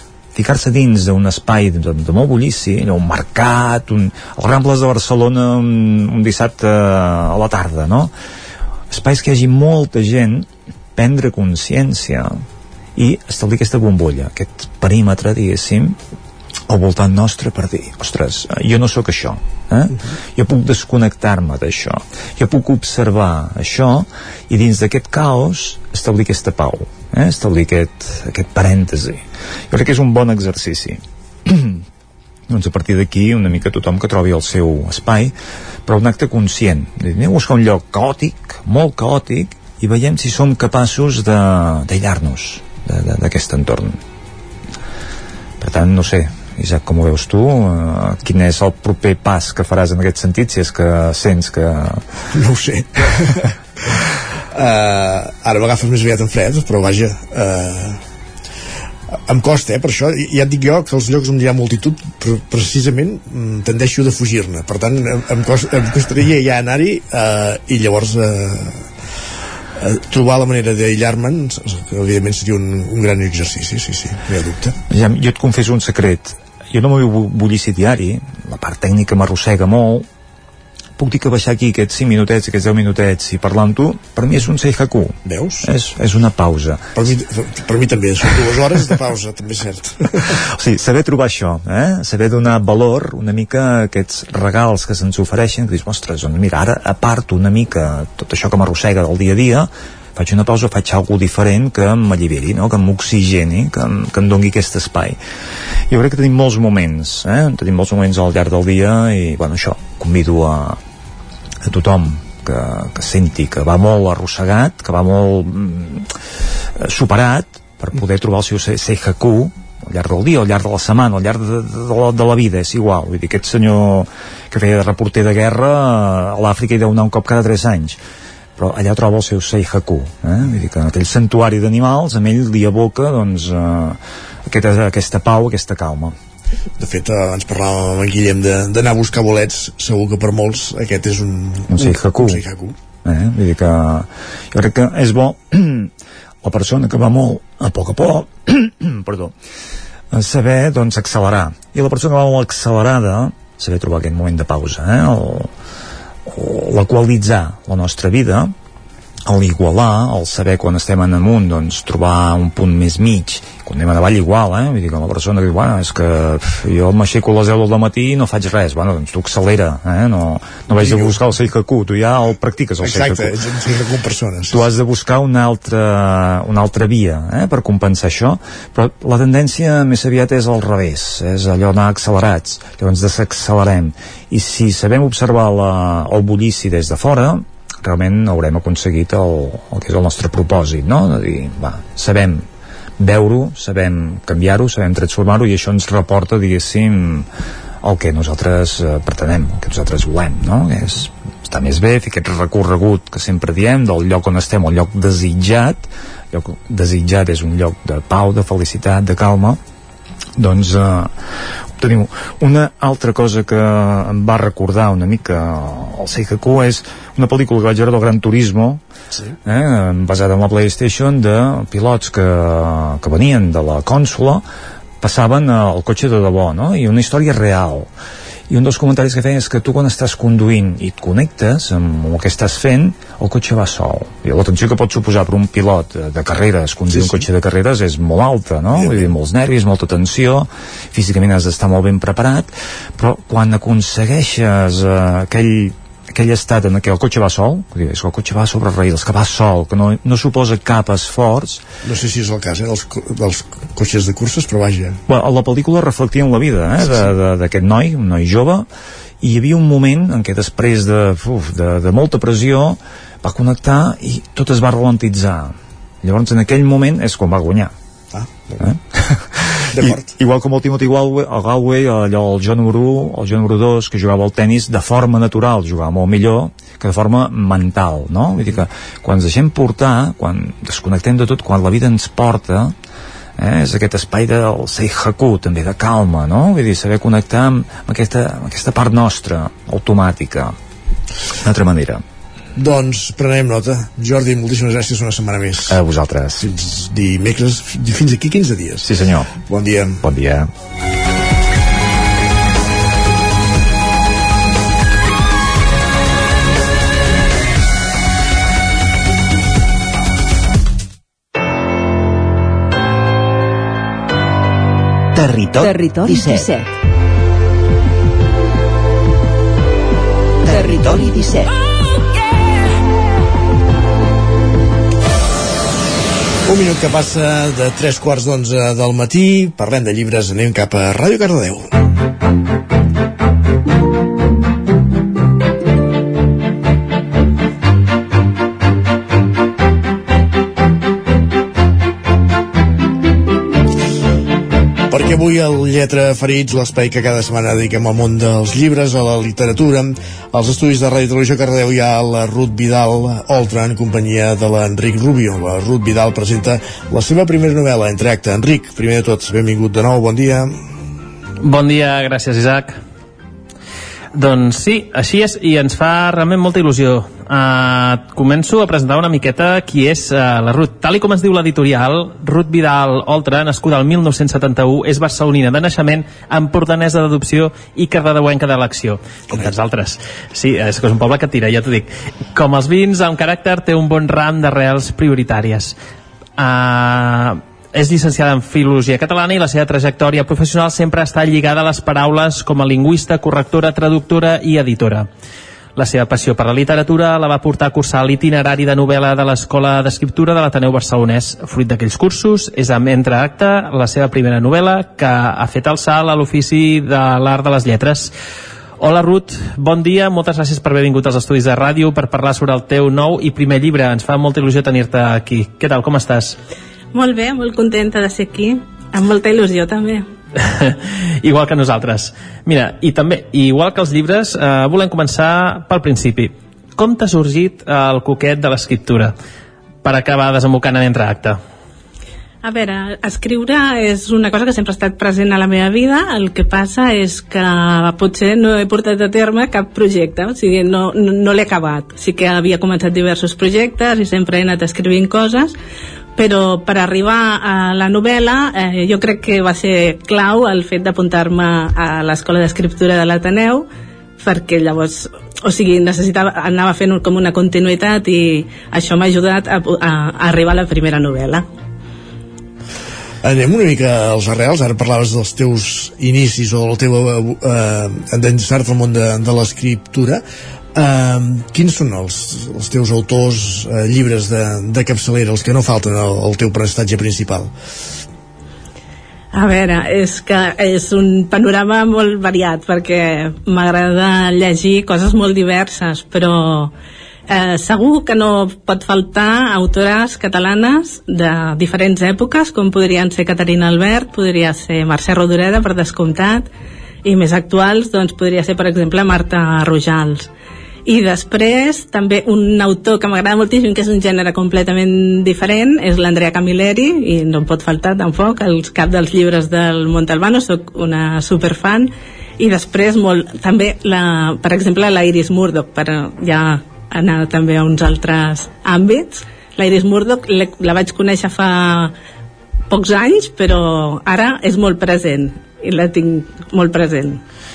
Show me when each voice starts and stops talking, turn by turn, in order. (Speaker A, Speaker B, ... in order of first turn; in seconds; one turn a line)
Speaker A: 0.3-8.1
Speaker A: 8.9-12.3
Speaker A: 12.9-15.9
Speaker A: 16.7-31.8
Speaker A: 32.5-35.3
Speaker A: 35.9-44.0
Speaker A: 45.6-52.0
Speaker B: 52.3-53.5
Speaker B: 54.5-58.0
Speaker B: 59.3-68.9
Speaker B: 69.8-74.8
Speaker A: 74.9-80.0
Speaker A: 81.0-86.9
Speaker B: 85.2-85.7
Speaker B: 87.0-90.3
Speaker A: 90.6-105.2
Speaker A: 105.9-110.8
Speaker A: 111.6-116.1
Speaker A: 116.8-128.0
Speaker A: 128.6-136.1
Speaker B: 136.8-142.7
Speaker A: 141.7-142.4
Speaker A: 143.0-145.9
Speaker A: 146.4-149.3
Speaker A: 150.1-155.5
Speaker A: 156.3-158.5
Speaker A: 159.2-173.3
Speaker B: 170.7-171.2
Speaker B: 172.8-174.6
Speaker A: 174.5-192.4
Speaker A: 193.0-197.3
Speaker A: 197.8-209.6
Speaker A: 210.4-211.1
Speaker A: 211.8-218.8
Speaker A: 219.4-224.4
Speaker A: 225.0-227.9
Speaker A: 228.5-251.6
Speaker B: 236.9-237.2
Speaker B: 238.7-239.1
Speaker B: 251.8-255.0
Speaker A: 255.1-258.7
Speaker B: 256.8-257.1
Speaker A: 259.2-267.7
Speaker B: 268.1-268.6
Speaker A: 268.6-282.7
Speaker B: 269.7-270.1
Speaker A: 283.4-290.5
Speaker A: 291.4-292.0
Speaker B: 292.6-295.8
Speaker A: 295.7-296.5
Speaker B: 296.4-298.9
Speaker A: 298.8-299.3
Speaker B: 299.4-300.0
Speaker A: 300.0-300.5
Speaker A: 315.1-316.3
Speaker B: 326.4-331.7
Speaker B: 344.9-360.6
Speaker C: 361.4-362.8
Speaker C: 364.1-385.8
Speaker C: 386.4-395.1
Speaker C: 395.8-408.1
Speaker C: 408.8-416.4
Speaker D: 416.9-420.1
Speaker C: 420.4-429.1
Speaker C: 429.8-431.4
Speaker D: 432.4-445.5
Speaker D: 446.1-453.7
Speaker D: 454.2-461.4
Speaker B: 463.2-470.2
Speaker B: 470.7-477.5
Speaker D: 479.3-486.7
Speaker D: 487.3-496.5
Speaker D: 497.0-500.3
Speaker D: 500.8-521.9
Speaker D: 522.7-527.2